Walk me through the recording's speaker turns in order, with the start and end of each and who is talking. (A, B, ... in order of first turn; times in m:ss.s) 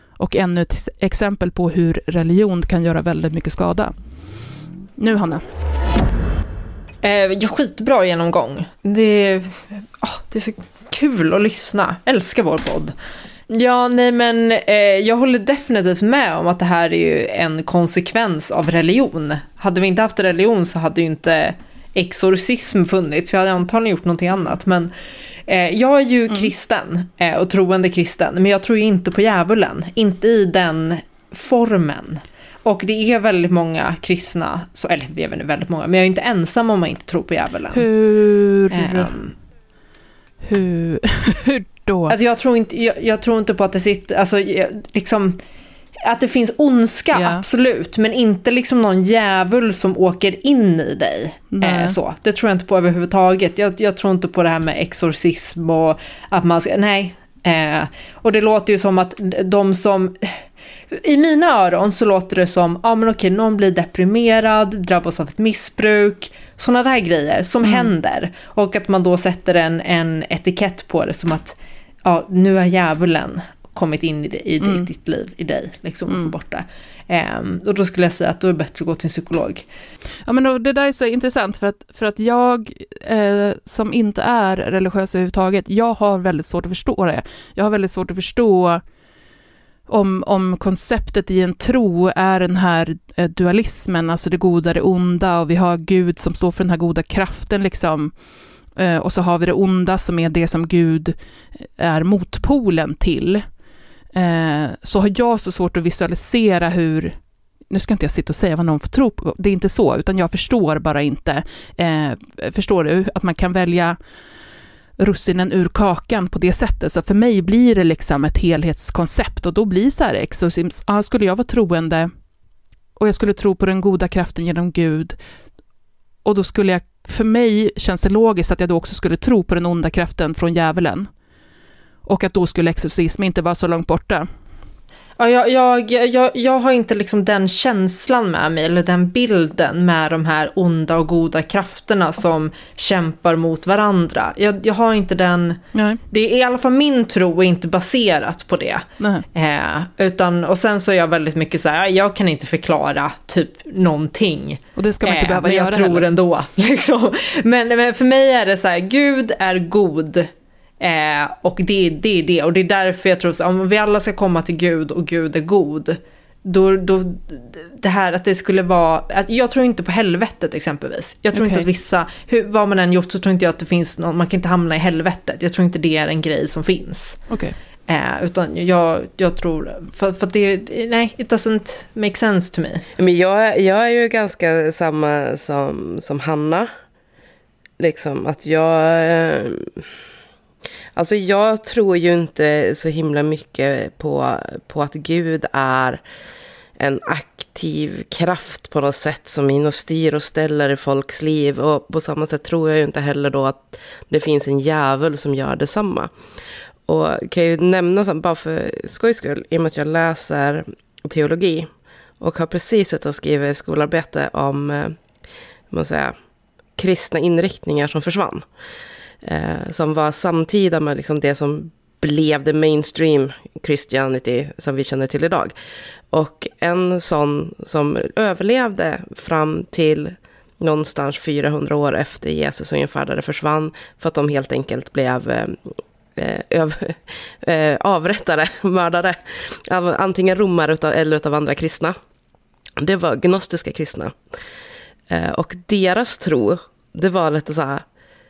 0:00.2-0:03.9 A
0:05.0-0:05.4 A
0:07.0-0:12.9 B
0:13.5-0:24.9 B
0:25.5-0:37.8 B
0:37.7-0:39.2 A
0:38.7-0:39.3 B
0:40.4-0:42.2 A
0:42.1-0:45.4 B
0:46.0-1:00.4 B
0:47.1-0:47.4 A
0:51.5-0:52.0 A
1:00.9-1:19.7 B
1:07.6-1:07.9 A
1:14.6-1:14.9 A
1:20.2-1:28.8 A
1:29.9-1:38.1 A
1:38.8-1:43.4 A
1:44.1-1:47.2 A
1:47.7-1:54.0 A
1:55.0-2:02.1 A
2:03.0-2:05.2 A
2:06.2-2:11.1 A
2:12.0-2:14.3 A
2:15.2-2:40.3 B
2:25.7-2:26.0 A
2:29.0-2:29.2 A
2:34.8-2:36.0 A
2:40.8-2:57.2 B
2:51.3-2:51.7 A
2:57.3-2:57.5 A
2:57.9-3:02.8 B
3:03.0-3:06.7 C
3:07.8-3:09.8 C
3:11.0-3:16.0 C
3:16.8-3:26.1 C
3:26.9-3:31.7 C
3:32.2-3:35.0 C
3:35.7-3:36.1 C
3:36.8-3:38.4 C
3:39.2-3:45.5 C
3:46.1-3:55.6 C
3:56.2-4:02.0 C
4:02.8-4:04.2 C
4:05.1-4:07.8 C